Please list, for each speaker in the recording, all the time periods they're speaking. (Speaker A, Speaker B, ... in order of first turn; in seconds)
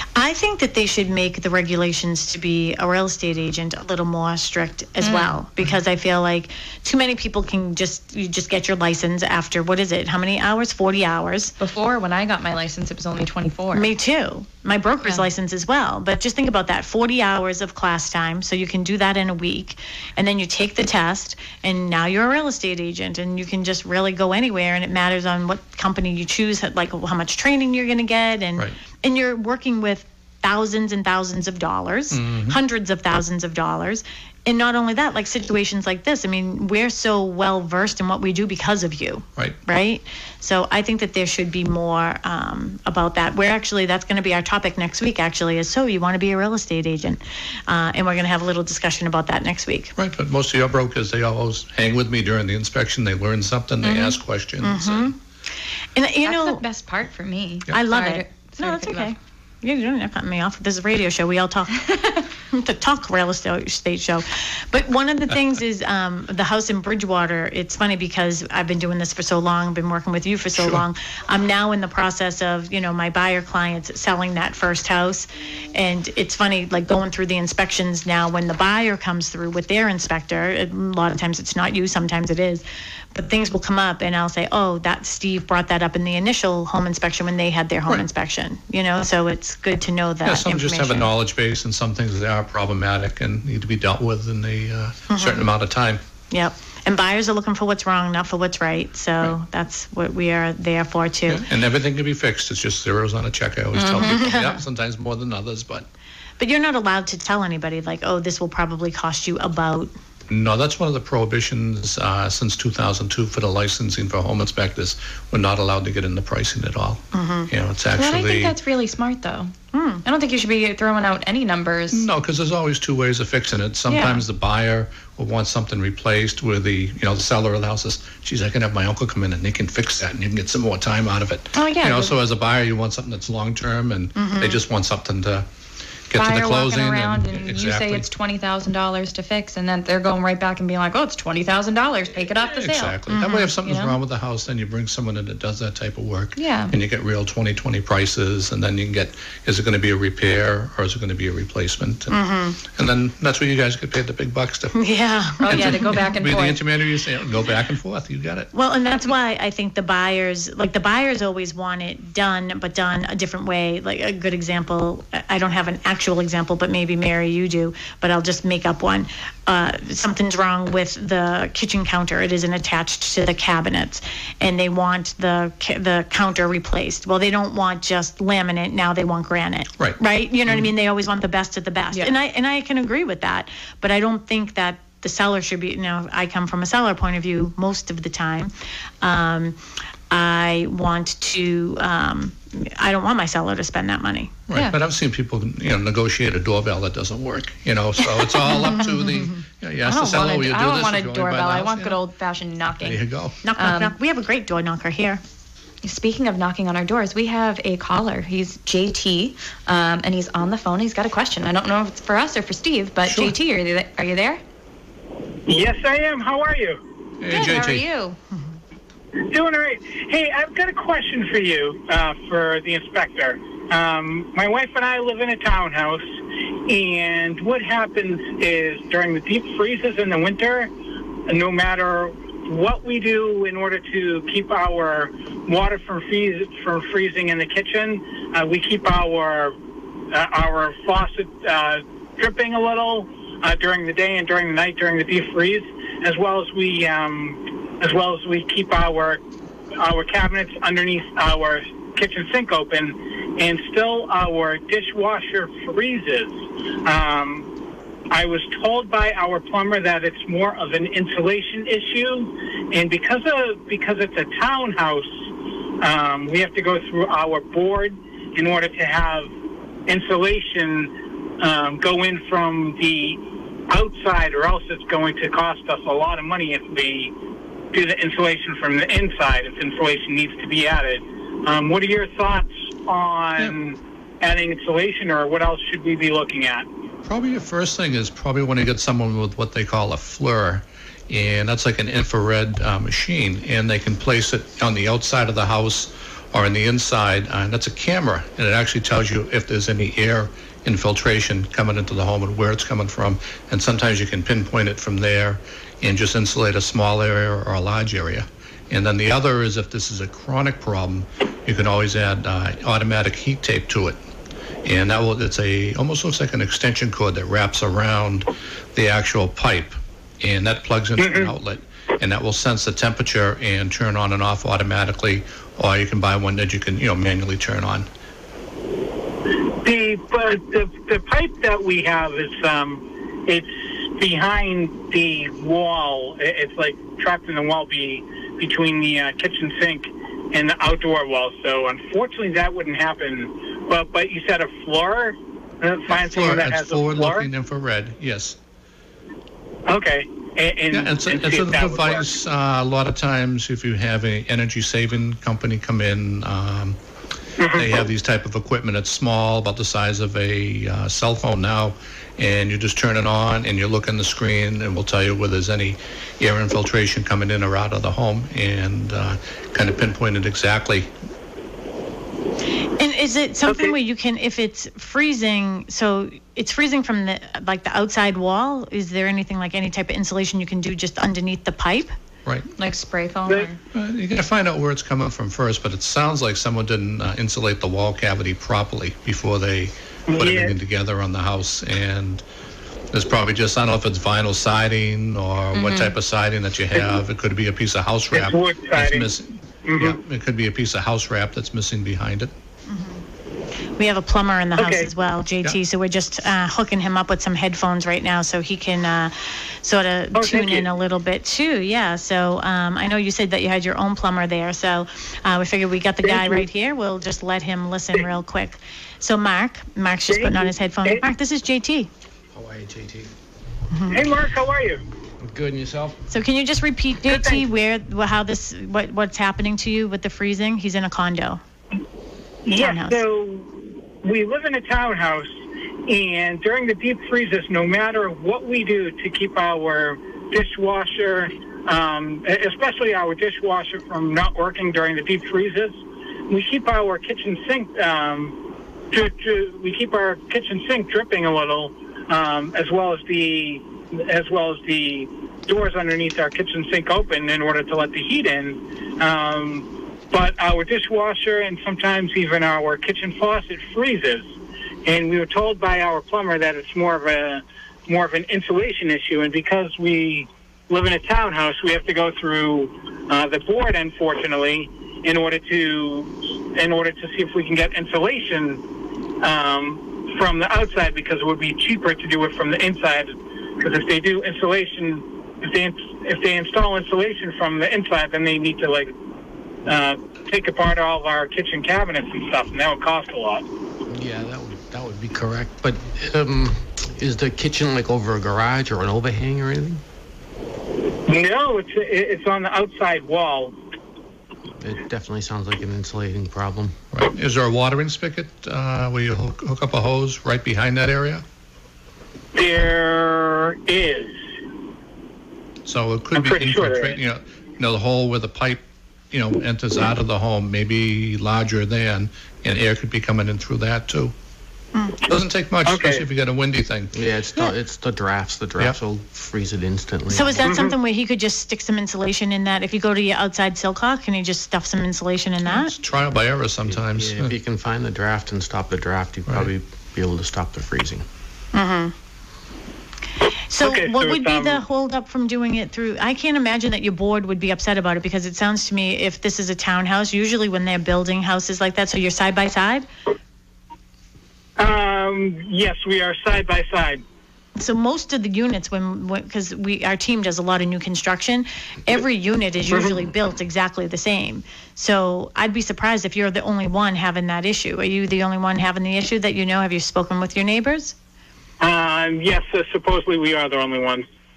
Speaker A: 0.1-11.5, 13.7-49.9, 54.6-55.1, 56.0-56.6, 57.7-91.1, 95.1-95.5, 96.3-101.5, 103.8-104.6, 106.4-109.9, 117.1-117.5, 119.7-120.0, 134.2-134.6, 143.1-143.6, 152.1-152.6, 154.7-156.1, 158.5-189.6, 190.1-194.5, 198.2-199.3, 203.4-205.2, 218.3-218.6, 372.8-381.9, 402.7-403.0, 403.8-421.9, 423.7-424.1, 426.1-431.4, 432.5-433.0, 530.1-535.7, 541.5-541.9, 543.5-552.9, 557.6-571.0
Speaker B: 5.0-5.4, 11.6-13.9, 53.8-54.2, 56.2-59.1, 103.8-104.1, 118.0-119.5, 120.0-122.0, 123.9-124.2, 131.5-132.2, 136.1-143.0, 143.7-143.9, 146.4-146.7, 155.4-156.6, 194.5-194.8, 199.9-203.0, 203.6-204.0, 205.8-214.4, 217.3-218.2, 382.6-383.6, 395.6-395.9
Speaker C: 32.1-32.6, 50.0-55.1, 70.6-70.8, 90.2-96.0, 101.3-105.9, 110.3-118.6, 121.9-135.5, 136.1-138.1, 142.6-154.9, 155.4-158.5, 179.8-180.7, 194.5-202.0, 202.8-203.4, 213.1-213.3, 217.2-217.9, 287.1-314.0, 314.6-327.9, 345.9-348.4, 350.7-356.8, 357.5-370.9, 382.2-382.5, 383.7-392.2, 392.9-402.3, 506.9-511.2, 515.7-524.1, 525.1-527.1, 535.5-537.4
Speaker D: 215.5-216.8, 219.2-226.0, 226.7-230.7, 231.3-239.5, 240.1-249.2, 249.8-257.5, 258.1-265.1, 265.8-269.3, 269.9-277.1, 277.7-286.7, 321.0-321.3, 329.6-347.3, 349.7-352.1, 357.4-357.9, 390.1-390.6, 396.7-397.0, 398.1-399.1, 399.7-400.0, 404.6-404.9, 410.1-410.6, 416.0-416.4, 420.1-421.0, 423.9-424.8, 427.1-427.4, 432.5-433.5, 434.0-435.3, 435.9-445.8, 446.3-448.3, 448.9-464.3, 464.9-478.6, 479.2-488.9, 489.7-493.4, 501.1-503.5, 512.4-514.2, 516.1-517.0, 525.6-526.0, 530.4-530.7, 543.6-544.6, 554.6-557.0, 571.6-574.0
Speaker E: 422.3-423.1, 425.2-426.0, 493.9-499.8, 504.6-506.8, 526.9-530.5, 536.7-541.0